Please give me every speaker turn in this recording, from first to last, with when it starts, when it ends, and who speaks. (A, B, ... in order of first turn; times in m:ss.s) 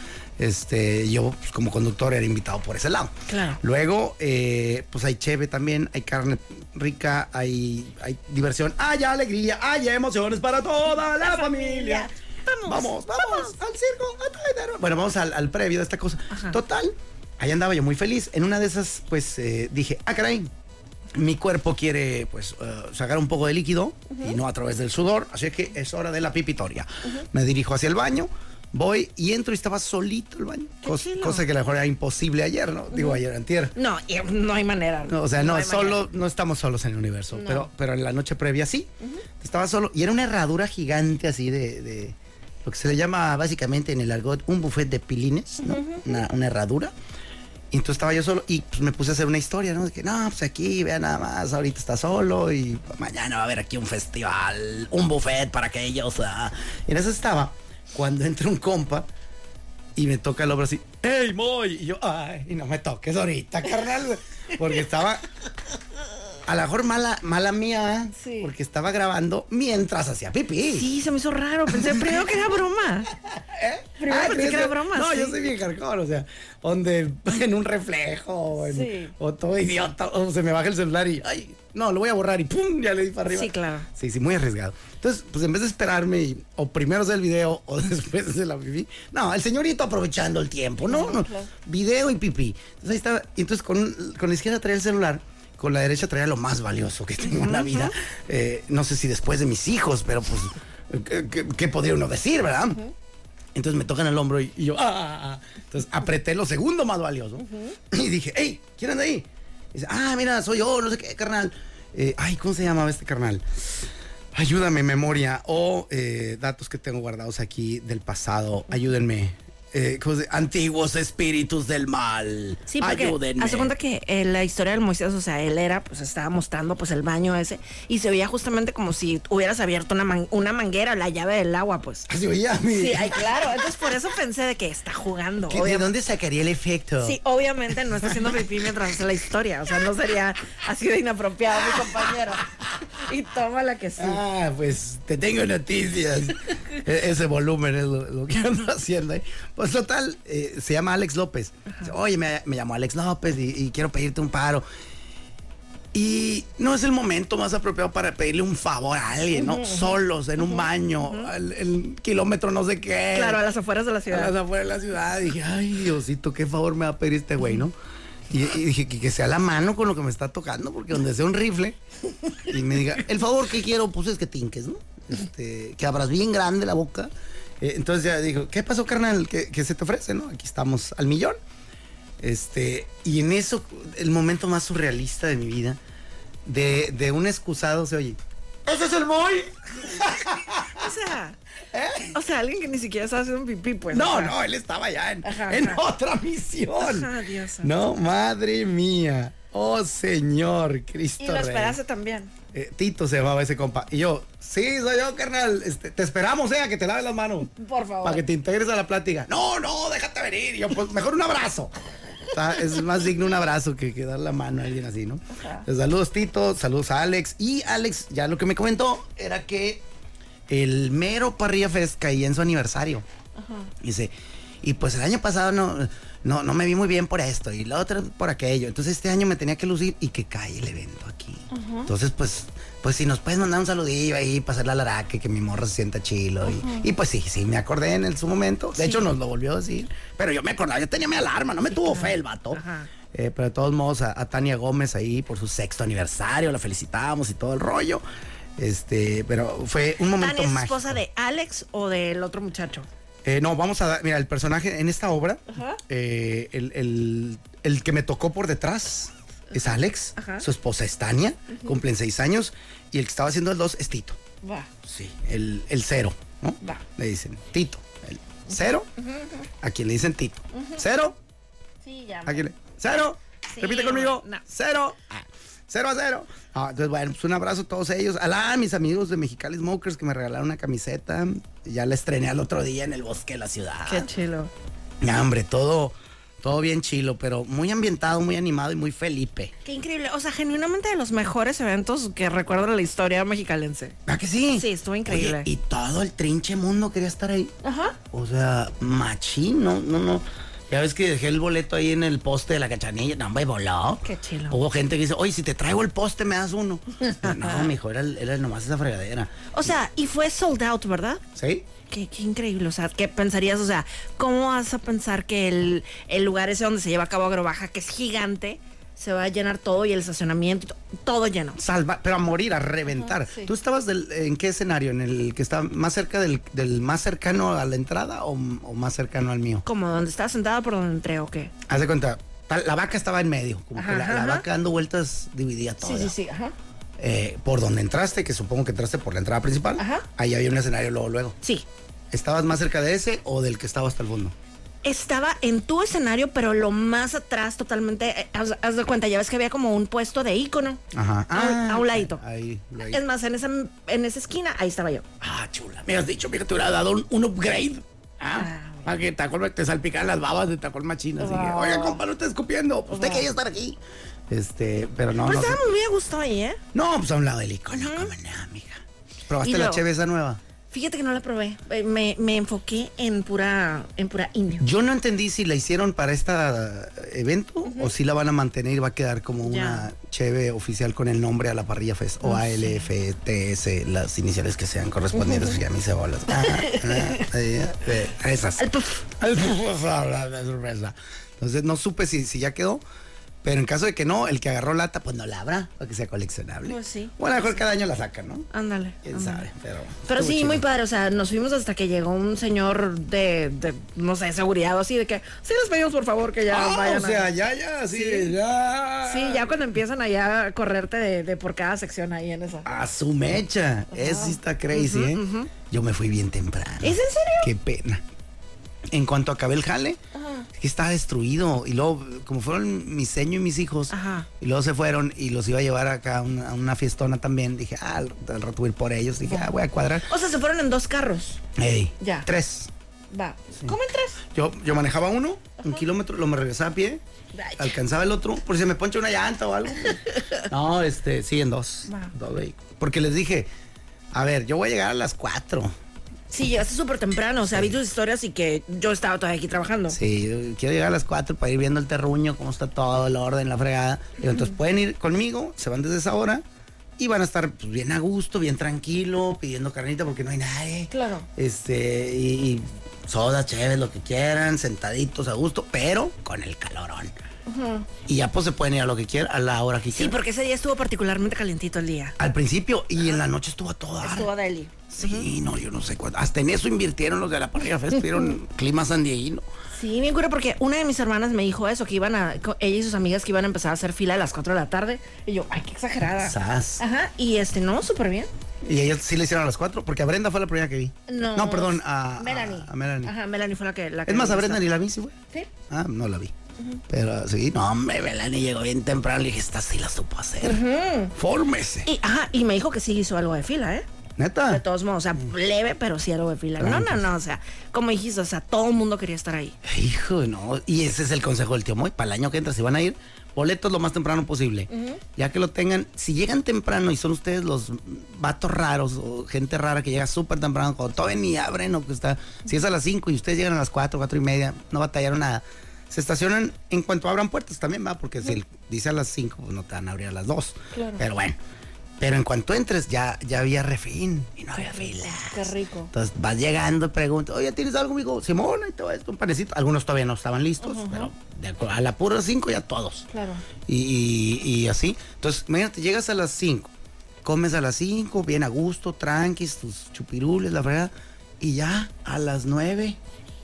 0:00.4-0:12.1 A
0:03.3-0:03.6 B
0:11.2-0:13.6 B
0:12.6-0:20.5 A
0:16.3-0:16.6 B
0:21.1-0:33.7 A
0:24.1-0:24.4 B
0:30.8-0:31.4 B
0:32.9-0:33.2 B
0:33.8-0:36.0 B
0:35.1-0:46.9 A
0:37.3-0:37.7 B
0:45.6-0:46.2 B
0:47.7-0:59.1 A
1:00.0-1:05.2 A
1:06.5-1:10.9 A
1:08.2-1:08.5 B
1:10.7-1:13.1 B
1:11.7-1:12.2 A
1:13.3-1:42.8 A
1:14.0-1:15.4 B
1:18.6-1:19.2 B
1:23.3-1:23.9 B
1:30.8-1:31.5 B
1:37.3-1:37.9 B
1:43.6-1:53.8 A
1:47.4-1:47.8 B
1:54.3-2:03.7 A
2:02.7-2:12.1 B
2:12.1-2:13.6 A
2:12.7-2:15.9 B
2:15.5-2:17.2 A
2:17.0-2:24.2 B
2:18.0-2:18.6 A
2:21.5-2:22.2 A
2:24.0-2:34.7 A
2:31.7-2:31.9 B
2:35.9-2:43.4 A
2:39.4-2:41.3 B
2:43.1-2:44.3 B
2:44.1-2:47.8 A
2:48.3-2:51.8 A
2:52.5-3:01.4 A
3:02.2-3:05.8 A
3:06.4-3:10.9 A
3:10.8-3:11.4 B
3:11.7-3:12.2 A
3:12.1-3:14.4 B
3:13.9-3:21.8 A
3:15.2-3:15.8 B
3:16.8-3:17.7 B
3:21.2-3:22.3 B
3:22.5-3:31.7 A
3:27.6-3:28.2 B
3:32.3-3:39.8 A
3:35.3-3:35.7 B
3:40.5-3:43.1 A
3:43.4-3:43.7 B
3:43.8-4:08.0 A
3:51.5-3:51.9 B
3:56.4-3:56.9 B
3:58.8-3:59.0 B
4:01.7-4:02.9 B
4:08.6-4:11.0 A
4:10.2-4:12.9 B
4:13.2-4:24.2 A
4:15.5-4:15.8 B
4:20.2-4:20.4 B
4:21.5-4:21.8 B
4:24.4-4:24.7 B
4:24.8-4:28.9 A
4:29.0-4:29.4 B
4:29.6-4:31.2 A
4:30.5-4:30.8 B
4:31.8-4:32.5 B
4:32.2-4:44.1 A
4:33.5-4:34.4 B
4:43.9-4:44.5 B
4:45.0-4:49.5 A
4:49.6-4:54.0 B
4:54.1-4:57.5 A
4:54.5-4:55.5 B
4:57.6-4:58.0 B
4:58.1-5:09.5 A
5:04.0-5:04.6 B
5:07.0-5:07.7 B
5:09.5-5:11.2 B
5:11.4-5:11.7 A
5:11.9-5:21.6 B
5:21.6-5:29.6 A
5:23.0-5:23.5 B
5:29.6-5:31.5 B
5:31.7-5:36.1 A
5:33.8-5:34.4 B
5:35.8-5:36.5 B
5:37.0-5:41.4 A
5:39.8-5:40.1 B
5:42.1-5:44.4 A
5:44.8-5:50.8 B
5:50.9-5:53.0 A
5:51.3-5:52.2 B
5:52.8-5:55.0 B
5:55.2-6:05.6 A
5:58.3-5:58.9 B
6:01.2-6:02.0 B
6:02.9-6:03.3 B
6:05.2-6:06.6 B
6:06.7-6:10.4 A
6:07.7-6:08.1 B
6:09.4-6:09.8 B
6:10.7-6:14.6 B
6:14.6-6:32.8 A
6:17.6-6:17.9 B
6:19.4-6:19.9 B
6:22.2-6:22.9 B
6:25.1-6:25.6 B
6:26.3-6:27.3 B
6:28.6-6:29.0 B
6:33.4-6:38.5 A
6:36.7-6:37.6 B
6:38.5-6:39.5 B
6:39.0-6:40.6 A
6:40.1-6:47.3 B
6:46.5-6:49.6 A
6:47.9-6:48.4 B
6:49.0-6:52.7 B
6:52.6-6:58.0 A
6:53.9-6:55.5 B
6:56.8-6:57.5 B
6:58.9-7:00.0 A
7:00.1-7:00.5 B
7:00.5-7:10.1 A
7:03.9-7:04.3 B
7:09.3-7:09.5 B
7:10.1-7:11.4 B
7:11.6-7:12.7 A
7:12.0-7:12.3 B
7:13.1-7:14.2 B
7:14.3-7:17.0 A
7:17.3-7:17.7 B
7:17.6-7:23.5 A
7:20.1-7:20.4 B
7:21.9-7:22.1 B
7:24.1-7:25.7 A
7:26.3-7:30.0 B
7:27.5-7:27.8 A
7:29.9-7:36.4 A
7:37.0-7:47.1 A
7:40.9-7:41.3 B
7:47.5-7:47.9 B
7:48.1-7:50.2 A
7:49.9-7:52.2 B
7:52.2-7:54.3 A
7:54.0-7:55.3 B
7:54.9-7:59.5 A
7:59.7-8:08.3 B
8:06.2-8:06.8 A
8:08.6-8:13.1 A
8:11.1-8:14.7 B
8:14.1-8:15.2 A
8:15.7-8:16.3 A
8:16.9-8:20.6 A
8:20.4-8:21.1 B
8:21.2-8:21.9 A
8:21.9-8:23.9 B
8:24.2-8:24.6 A
8:24.5-8:29.6 B
8:26.6-8:27.1 A
8:29.6-8:51.4 A
8:34.7-8:35.0 B
8:50.7-8:51.0 B
8:52.0-9:03.1 A
8:54.6-8:55.9 B
9:00.6-9:01.1 B
9:03.1-9:03.4 B
9:03.7-9:06.7 A
9:07.2-9:13.0 A